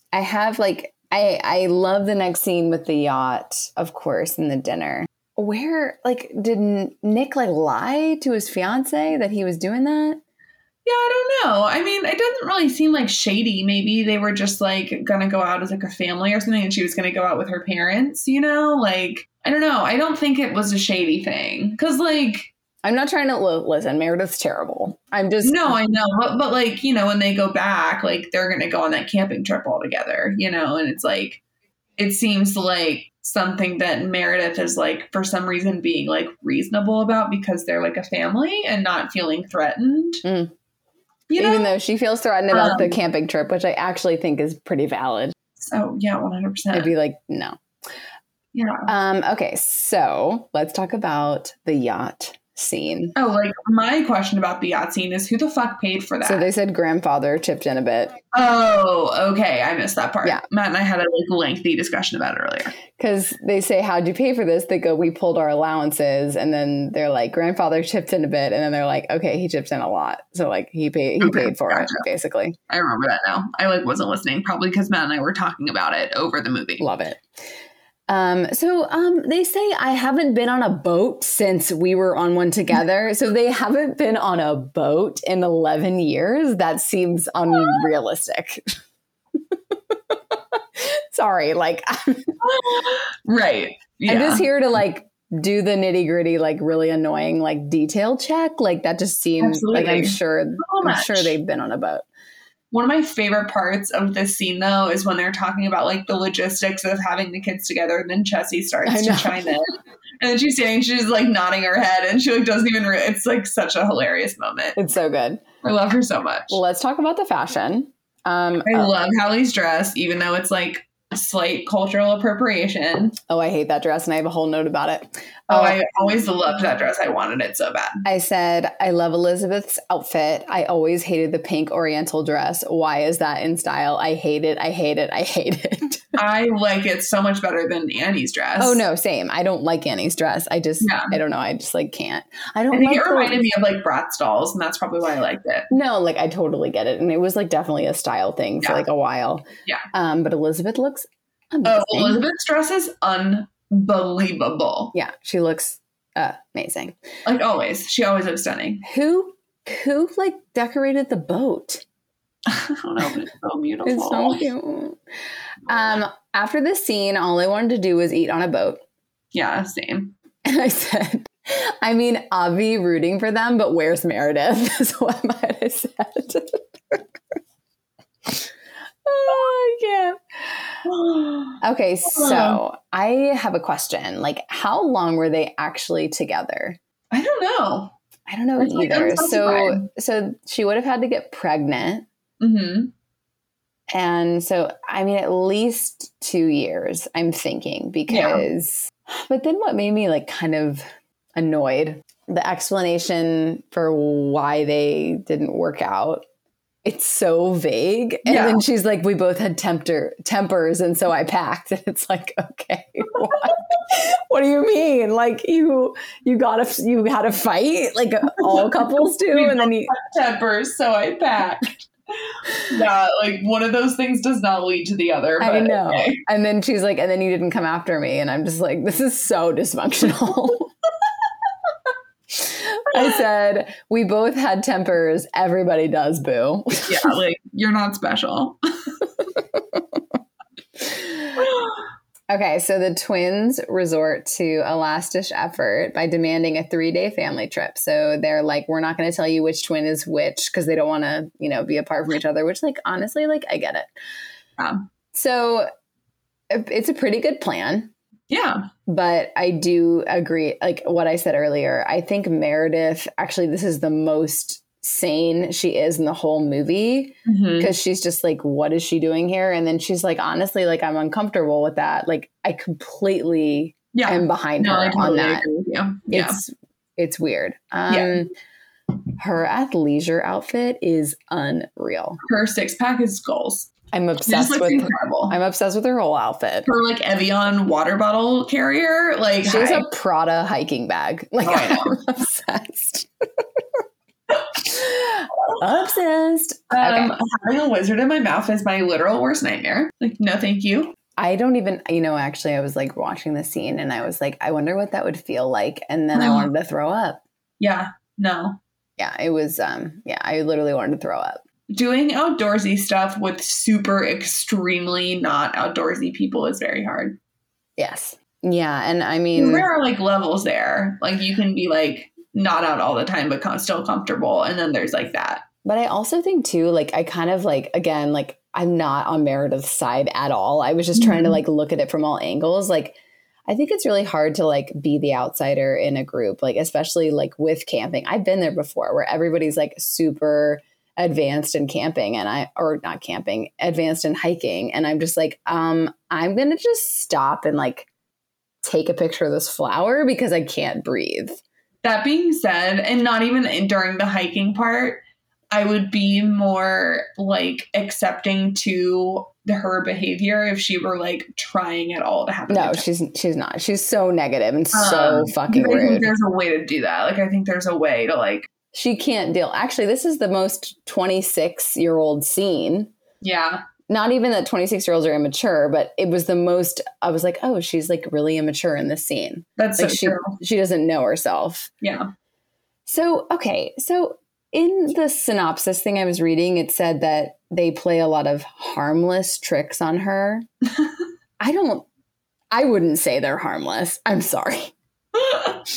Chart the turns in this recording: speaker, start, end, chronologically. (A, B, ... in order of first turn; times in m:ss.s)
0:00.1-0:10.2 A
0:10.8-0:22.5 B
0:22.8-0:25.8 A
0:25.4-0:31.4 B
0:32.0-0:40.2 B
0:40.2-0:40.5 A
0:41.3-0:41.7 B
0:41.4-0:45.3 A
0:42.5-0:43.0 B
0:45.6-0:46.9 B
0:46.7-0:47.6 A
0:48.5-0:48.9 B
0:48.9-0:53.1 A
0:53.2-0:56.5 B
0:56.2-0:58.2 A
0:58.3-1:02.8 B
1:03.0-1:12.6 A
1:11.2-1:12.0 B
1:12.7-1:16.9 B
1:16.8-1:17.2 A
1:18.1-1:28.7 A
1:29.7-1:32.4 A
1:32.4-1:34.5 B
1:34.1-1:42.1 A
1:39.4-1:41.4 B
1:42.7-1:54.8 B
1:48.9-1:49.4 A
1:54.8-1:55.4 A
1:55.6-1:56.6 B
1:56.5-1:58.9 A
1:58.6-2:03.2 B
2:03.3-2:05.8 A
2:05.5-2:08.0 B
2:08.0-2:16.2 A
2:16.2-2:18.8 B
2:18.6-2:23.5 A
2:20.8-2:21.2 B
2:22.7-2:25.7 B
2:25.7-2:32.2 A
2:31.6-2:34.9 B
2:34.9-2:37.0 A
2:37.2-2:38.8 B
2:38.8-2:41.8 A
2:42.5-2:44.5 B
2:43.9-2:45.0 A
2:45.7-2:48.8 A
2:49.3-2:50.2 B
2:50.4-2:57.0 A
2:59.0-3:00.6 A
3:00.8-3:02.6 B
3:01.6-3:06.8 A
3:07.1-3:08.0 B
3:08.3-3:12.1 A
3:08.6-3:09.9 B
3:12.4-3:12.9 B
3:13.9-3:20.8 A
3:18.1-3:18.5 B
3:21.4-3:26.2 A
3:26.8-3:39.9 A
3:28.3-3:28.6 B
3:38.5-3:41.8 B
3:42.3-3:46.2 B
3:45.4-3:50.7 A
3:52.3-3:57.1 A
3:56.9-3:58.6 B
3:59.5-4:00.0 A
4:00.8-4:01.4 A
4:01.4-4:01.8 B
4:02.3-4:13.9 A
4:14.6-4:14.9 B
4:15.1-4:15.7 A
4:16.5-4:17.9 A
4:18.3-4:18.6 B
4:18.9-4:35.5 A
4:27.3-4:27.7 B
4:33.9-4:36.4 B
4:36.1-4:38.3 A
4:37.9-4:38.3 B
4:39.2-4:42.2 A
4:42.2-4:43.7 B
4:43.9-4:46.7 A
4:44.3-4:45.4 B
4:46.7-4:49.9 B
4:49.4-4:53.6 A
4:51.4-4:52.0 B
4:54.6-4:57.2 A
4:56.7-5:00.9 B
5:01.2-5:07.2 A
5:06.1-5:06.5 B
5:07.6-5:08.6 B
5:09.0-5:11.4 A
5:11.7-5:17.2 B
5:17.8-5:19.7 A
5:19.4-5:25.4 B
5:25.6-5:47.9 A
5:31.0-5:31.4 B
5:48.6-5:51.4 A
5:51.8-6:02.9 B
6:02.5-6:06.1 A
6:04.7-6:08.5 B
6:08.7-6:12.9 A
6:13.2-6:13.6 B
6:13.9-6:21.7 A
6:19.6-6:20.4 B
6:21.8-6:22.1 B
6:22.9-6:30.5 A
6:31.4-6:31.9 A
6:32.5-6:34.7 A
6:35.2-6:35.6 B